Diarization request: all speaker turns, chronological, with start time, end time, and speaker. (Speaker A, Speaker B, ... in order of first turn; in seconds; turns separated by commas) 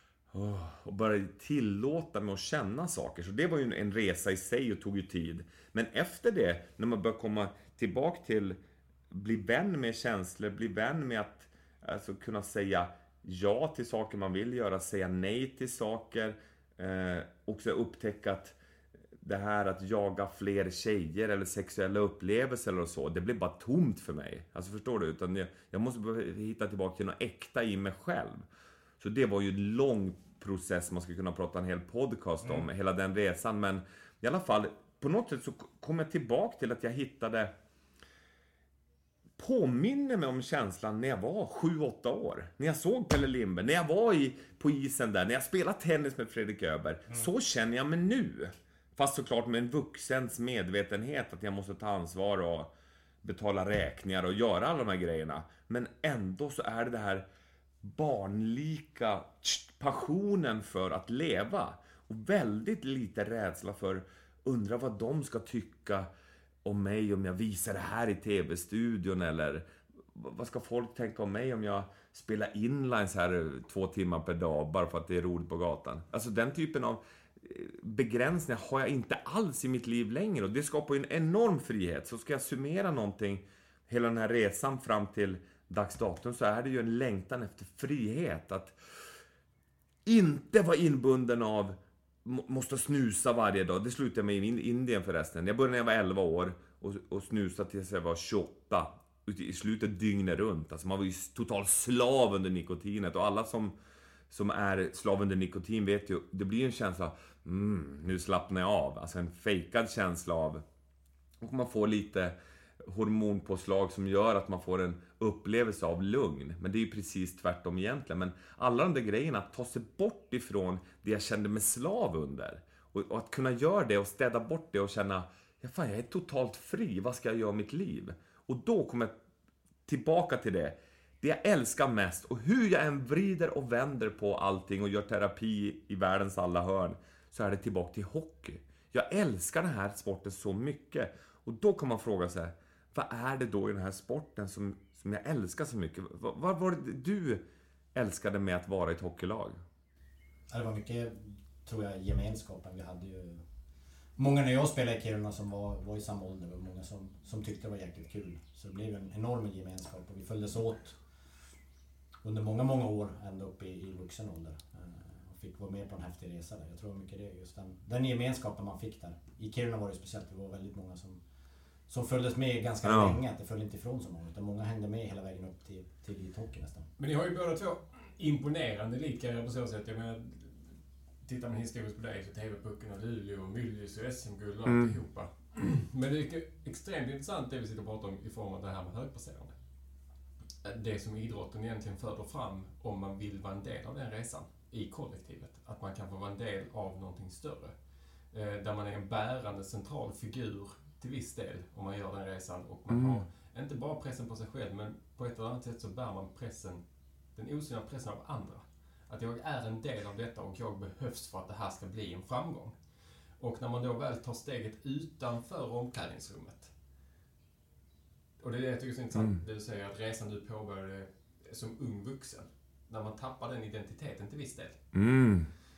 Speaker A: 0.3-8.6, Speaker A: 9.1-18.6, Speaker A: 19.2-28.4, Speaker A: 29.0-37.5, Speaker A: 39.4-52.7, Speaker A: 53.2-57.2, Speaker A: 57.8-66.1, Speaker A: 66.6-88.8, Speaker A: 90.0-103.7, Speaker A: 104.3-110.6, Speaker A: 111.4-129.2, Speaker A: 129.8-147.4, Speaker A: 147.9-149.6, Speaker B: 150.5-153.4, Speaker B: 154.2-161.0, Speaker B: 162.2-171.2, Speaker B: 171.9-176.9, Speaker A: 172.8-173.2, Speaker C: 177.0-189.6, Speaker A: 184.7-184.9, Speaker C: 190.6-197.7, Speaker C: 198.3-206.8, Speaker A: 202.9-203.2, Speaker C: 207.3-212.8, Speaker C: 213.4-216.7, Speaker C: 218.4-224.9, Speaker A: 224.9-225.5